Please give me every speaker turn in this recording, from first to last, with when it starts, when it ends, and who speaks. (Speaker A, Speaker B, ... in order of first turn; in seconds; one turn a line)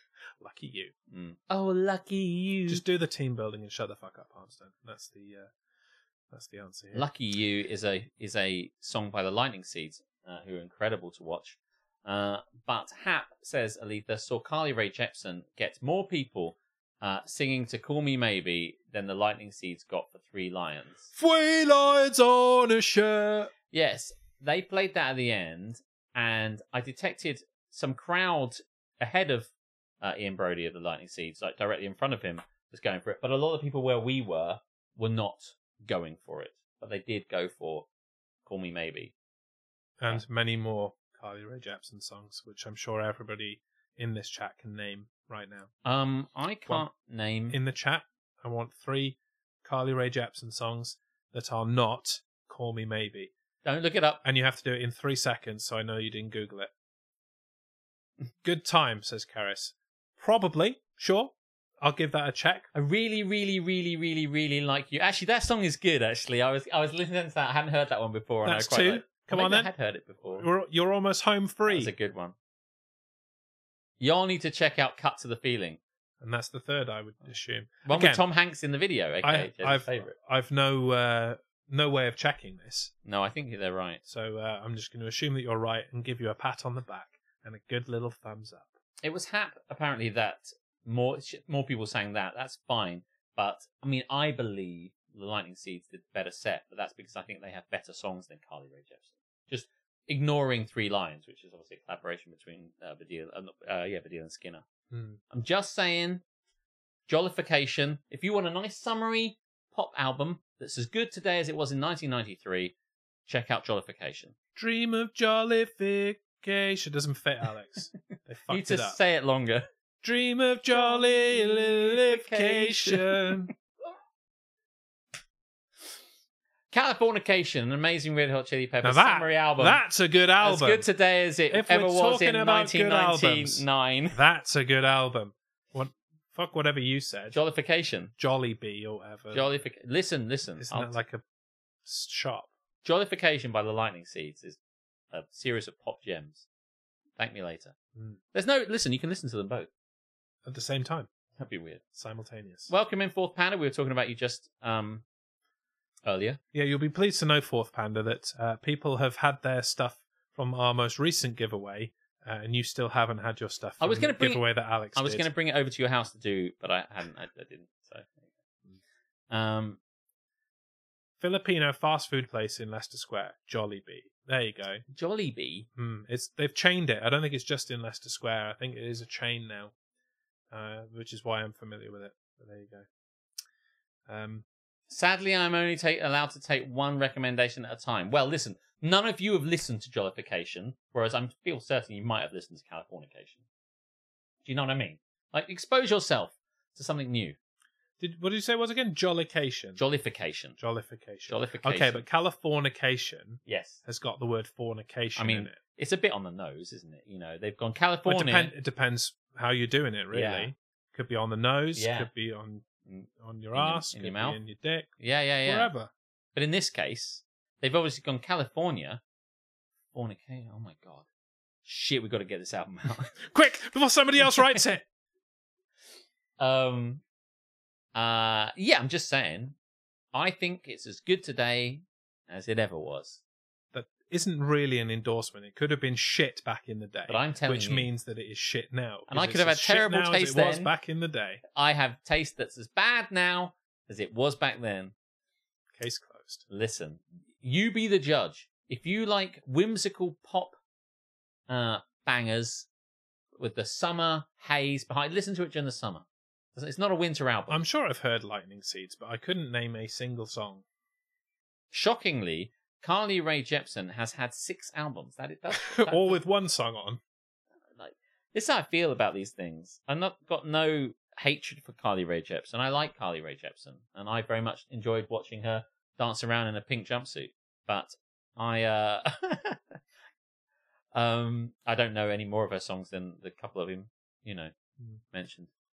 Speaker A: 0.4-0.9
Speaker B: 1.1-2.8
Speaker A: 2.7-5.5
Speaker A: 6.3-7.1
Speaker B: 6.9-21.1
Speaker A: 21.1-23.5
Speaker B: 23.7-29.5
Speaker B: 30.0-37.9
Speaker B: 38.5-39.1
Speaker A: 40.0-45.7
Speaker B: 45.8-47.6
Speaker A: 47.5-53.3
Speaker B: 53.6-54.2
Speaker A: 54.2-56.7
Speaker A: 58.4-62.7
Speaker B: 62.7-70.5
Speaker A: 68.4-69.7
Speaker A: 70.4-71.9
Speaker B: 71.7-72.3
Speaker B: 74.0-75.8
Speaker A: 76.2-78.2
Speaker B: 77.9-80.1
Speaker A: 79.2-82.9
Speaker B: 83.0-84.0
Speaker A: 84.1-88.7
Speaker B: 89.0-104.7
Speaker A: 104.9-105.2
Speaker B: 105.3-106.2
Speaker B: 107.1-112.7
Speaker B: 113.3-114.3
Speaker A: 114.6-119.0
Speaker B: 118.5-119.7
Speaker A: 120.0-123.5
Speaker B: 120.7-123.5
Speaker B: 126.7-129.8
Speaker A: 128.8-130.9
Speaker B: 130.4-134.2
Speaker A: 131.5-137.4
Speaker B: 137.3-138.1
Speaker A: 138.2-139.5
Speaker B: 139.3-141.0
Speaker A: 140.6-141.2
Speaker A: 141.8-142.5
Speaker B: 142.8-144.6
Speaker B: 145.1-146.5
Speaker B: 147.2-147.8
Speaker B: 148.3-149.7
Speaker A: 150.4-151.1
Speaker B: 151.4-151.8
Speaker A: 151.9-152.7
Speaker B: 152.7-155.0
Speaker B: 156.1-156.4
Speaker A: 156.5-165.3
Speaker B: 163.8-168.2
Speaker B: 169.3-169.8
Speaker A: 171.2-174.8
Speaker B: 174.9-175.7
Speaker A: 175.8-179.7
Speaker A: 180.5-182.9
Speaker A: 184.1-184.4
Speaker B: 184.9-193.4
Speaker B: 194.4-197.4
Speaker A: 198.0-199.8
Speaker B: 199.8-200.6
Speaker A: 200.6-205.6
Speaker B: 201.3-202.0
Speaker B: 203.4-203.8
Speaker B: 205.2-208.5
Speaker A: 208.1-212.7
Speaker B: 210.1-210.5
Speaker B: 211.8-212.1
Speaker B: 212.9-214.4
Speaker A: 213.2-214.9
Speaker B: 215.0-215.7
Speaker A: 215.4-215.9
Speaker B: 216.3-219.0
Speaker B: 219.9-221.1
Speaker B: 221.7-223.2
Speaker A: 223.2-224.8
Speaker B: 224.2-224.6
Speaker B: 226.4-227.0
Speaker B: 227.9-229.6
Speaker B: 230.1-233.2
Speaker A: 233.7-241.4
Speaker B: 237.1-237.9
Speaker B: 239.1-240.7
Speaker B: 241.5-244.9
Speaker A: 245.8-246.4
Speaker B: 246.5-250.6
Speaker B: 251.5-252.7
Speaker B: 253.4-257.6
Speaker A: 257.5-260.6
Speaker B: 261.7-266.2
Speaker A: 265.6-267.0
Speaker B: 267.8-279.8
Speaker B: 280.9-284.5
Speaker B: 285.1-285.5